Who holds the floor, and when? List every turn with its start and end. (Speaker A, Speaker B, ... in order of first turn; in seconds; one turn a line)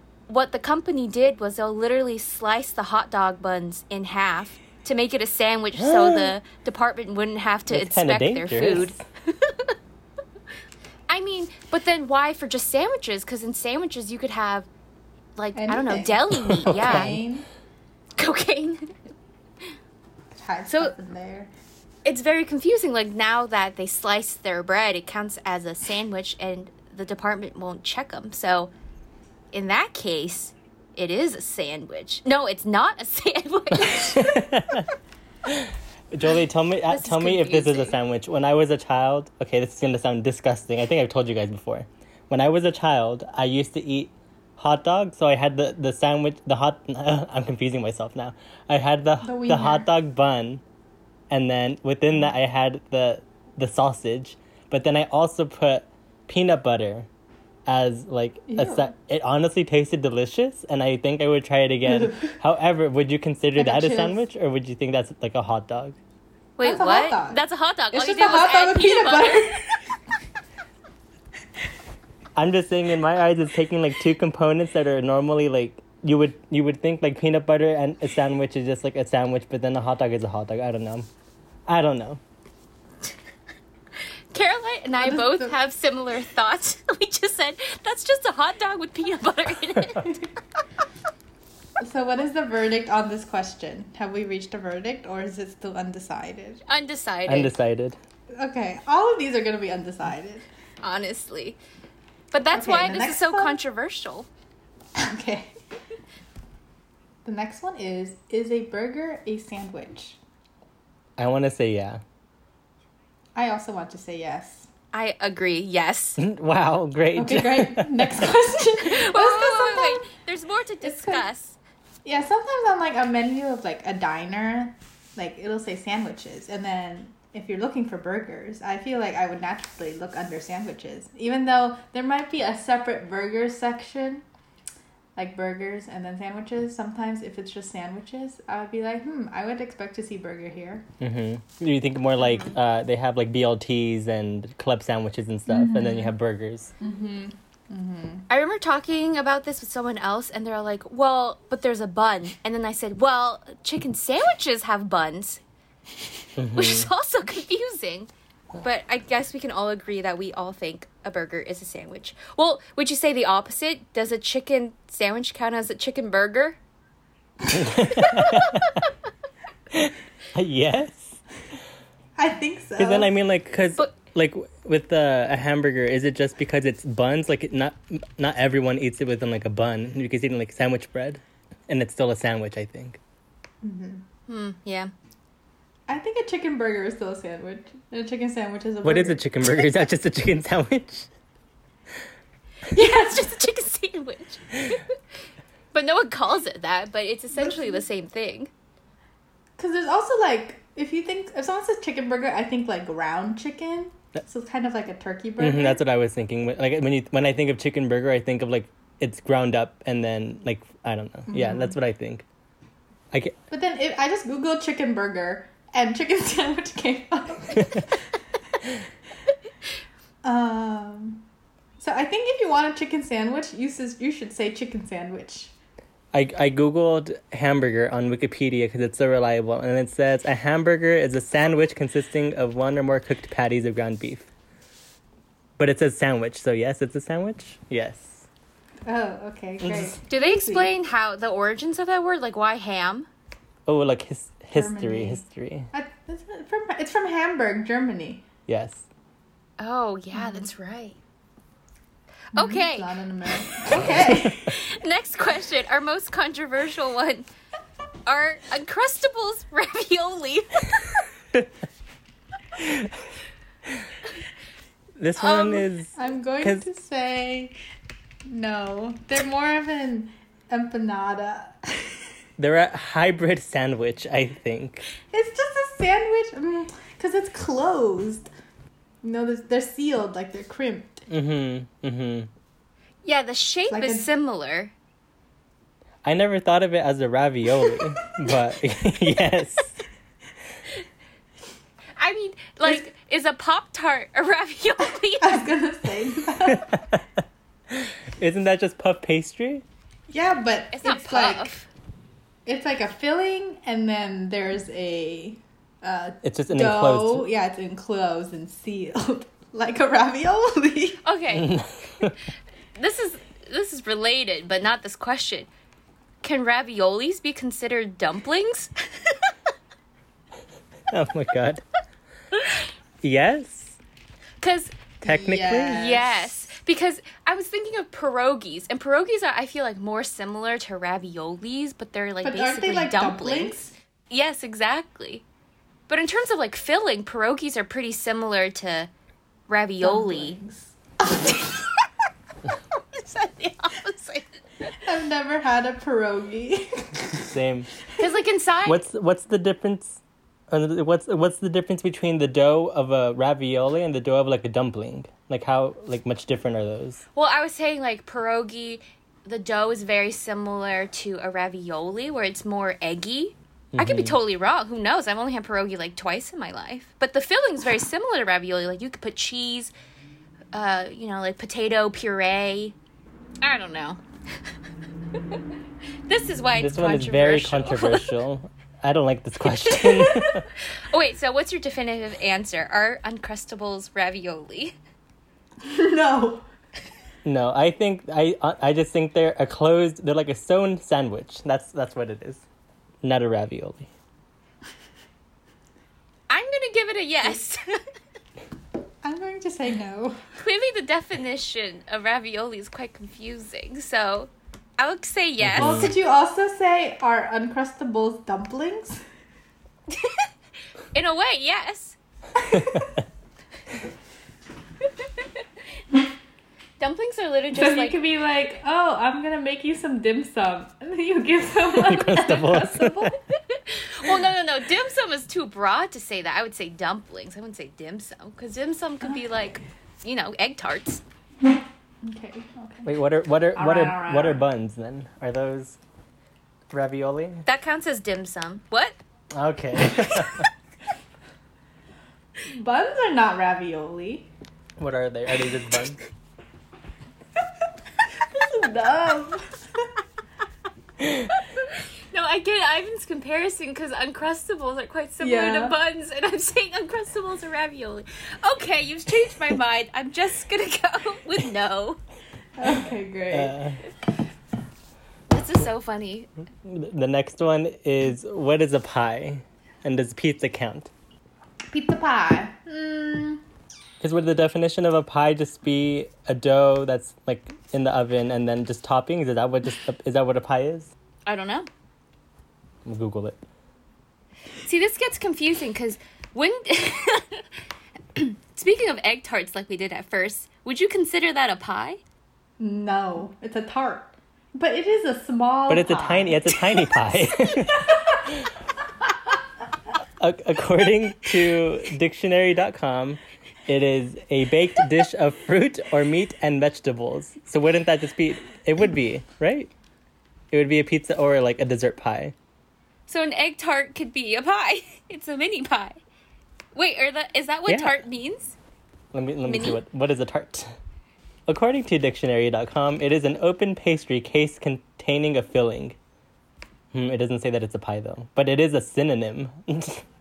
Speaker A: 0.3-9.7
Speaker B: 5.8-6.3
Speaker B: 7.7-9.0
Speaker A: 11.1-14.7
Speaker A: 15.4-17.1
Speaker C: 15.5-17.5
Speaker B: 16.3-17.2
Speaker A: 18.2-18.9
Speaker C: 20.4-21.5
Speaker A: 20.7-20.9
Speaker A: 22.0-28.7
Speaker A: 29.5-34.4
Speaker B: 33.9-34.9
Speaker B: 35.4-50.6
Speaker A: 36.9-38.0
Speaker C: 49.2-49.9
Speaker B: 51.3-57.1
Speaker B: 57.6-66.0
Speaker C: 58.5-58.9
Speaker C: 63.5-64.2
Speaker A: 66.6-69.6
Speaker C: 66.6-67.4
Speaker C: 67.9-69.9
Speaker B: 72.3-81.1
Speaker B: 81.7-82.2
Speaker A: 84.3-90.2
Speaker C: 85.0-85.5
Speaker C: 91.8-96.6
Speaker A: 96.7-97.5
Speaker B: 97.2-98.0
Speaker C: 98.3-100.5
Speaker A: 100.8-101.6
Speaker A: 102.3-104.3
Speaker C: 102.5-103.6
Speaker C: 105.0-105.5
Speaker C: 107.2-110.2
Speaker B: 111.2-112.0
Speaker C: 113.3-114.7
Speaker A: 114.9-116.2
Speaker B: 116.2-118.2
Speaker C: 117.2-120.0
Speaker A: 118.8-121.6
Speaker C: 120.8-121.2
Speaker C: 122.0-134.2
Speaker C: 135.2-140.9
Speaker B: 141.0-146.7
Speaker C: 145.5-146.1
Speaker C: 146.8-148.2
Speaker A: 148.3-155.4
Speaker B: 156.4-156.9
Speaker A: 156.5-166.6
Speaker B: 167.5-168.9
Speaker A: 168.1-168.4
Speaker B: 169.7-171.2
Speaker C: 172.2-173.1
Speaker B: 172.8-183.0
Speaker C: 183.6-184.0
Speaker A: 184.3-184.9
Speaker C: 185.9-189.7
Speaker B: 188.8-191.1
Speaker A: 192.7-194.9
Speaker A: 195.7-198.5
Speaker C: 197.3-197.8
Speaker C: 199.6-205.8
Speaker B: 205.4-212.2
Speaker C: 211.3-211.8
Speaker C: 213.5-218.0
Speaker C: 220.2-221.2
Speaker C: 221.8-225.5
Speaker B: 226.1-234.3
Speaker B: 235.6-238.2
Speaker C: 238.8-240.7
Speaker B: 239.6-239.9
Speaker A: 240.1-243.1
Speaker B: 243.7-245.7
Speaker C: 244.5-248.2
Speaker B: 248.5-248.9
Speaker A: 249.6-251.0
Speaker C: 250.1-250.5
Speaker A: 252.3-252.9
Speaker C: 252.3-254.5
Speaker B: 253.7-254.3
Speaker A: 254.5-257.3
Speaker A: 258.1-261.0
Speaker B: 262.6-262.9
Speaker B: 265.0-266.6
Speaker A: 265.2-265.7
Speaker C: 265.9-267.5
Speaker C: 268.3-272.1
Speaker B: 272.4-274.9
Speaker C: 275.1-278.3
Speaker C: 279.0-281.1
Speaker B: 281.1-282.3
Speaker A: 283.0-284.7
Speaker C: 283.7-284.1
Speaker B: 286.0-289.8
Speaker A: 292.0-295.5
Speaker C: 295.2-296.8
Speaker B: 296.5-299.6
Speaker C: 300.1-301.5
Speaker A: 300.7-301.7
Speaker C: 302.4-311.0
Speaker B: 306.2-307.2
Speaker A: 311.0-311.6
Speaker B: 311.3-312.2
Speaker A: 312.8-315.5
Speaker A: 316.2-319.3
Speaker B: 320.9-321.6
Speaker B: 323.0-323.8
Speaker A: 324.4-324.9
Speaker C: 325.0-326.3
Speaker B: 325.0-325.9
Speaker A: 325.6-333.5
Speaker C: 332.2-333.7
Speaker A: 334.1-335.2
Speaker A: 335.9-338.9
Speaker A: 339.5-340.4
Speaker C: 339.8-340.8
Speaker A: 342.7-344.3
Speaker C: 344.8-347.2
Speaker B: 347.2-347.7
Speaker A: 348.0-348.8
Speaker B: 348.6-357.0
Speaker A: 357.1-369.7
Speaker B: 363.7-364.2
Speaker A: 370.5-372.7
Speaker A: 373.4-374.0
Speaker A: 376.1-378.1
Speaker B: 376.6-380.4
Speaker A: 379.7-384.7
Speaker C: 385.6-386.4
Speaker B: 387.2-392.4
Speaker B: 393.0-393.9
Speaker A: 396.3-397.8
Speaker C: 399.0-400.2
Speaker A: 400.4-405.9
Speaker B: 405.4-405.9
Speaker C: 405.6-409.0
Speaker A: 409.9-410.3
Speaker A: 410.9-412.0
Speaker B: 412.5-413.0
Speaker A: 416.8-417.9
Speaker C: 417.5-423.2
Speaker B: 421.8-423.1
Speaker A: 423.5-431.0
Speaker C: 432.0-432.9
Speaker B: 432.8-435.8
Speaker C: 433.5-434.4
Speaker B: 436.7-437.4
Speaker A: 437.4-439.0
Speaker B: 439.3-440.4
Speaker C: 442.4-444.3
Speaker B: 444.8-446.0
Speaker C: 448.2-449.9
Speaker A: 451.3-462.0
Speaker C: 455.2-455.8
Speaker C: 462.6-463.6
Speaker B: 463.3-463.8
Speaker A: 465.3-466.3
Speaker B: 466.6-470.9
Speaker C: 471.7-473.4
Speaker B: 474.0-480.9
Speaker A: 481.2-481.7
Speaker B: 482.8-483.4
Speaker A: 484.6-487.5
Speaker A: 488.1-492.0
Speaker C: 492.6-498.3
Speaker B: 495.7-498.5
Speaker B: 500.2-509.7
Speaker B: 510.5-512.3
Speaker A: 513.1-516.0
Speaker A: 516.7-518.5
Speaker B: 517.7-518.0
Speaker B: 519.1-520.7
Speaker A: 519.5-519.8
Speaker B: 521.5-526.0
Speaker B: 526.9-530.0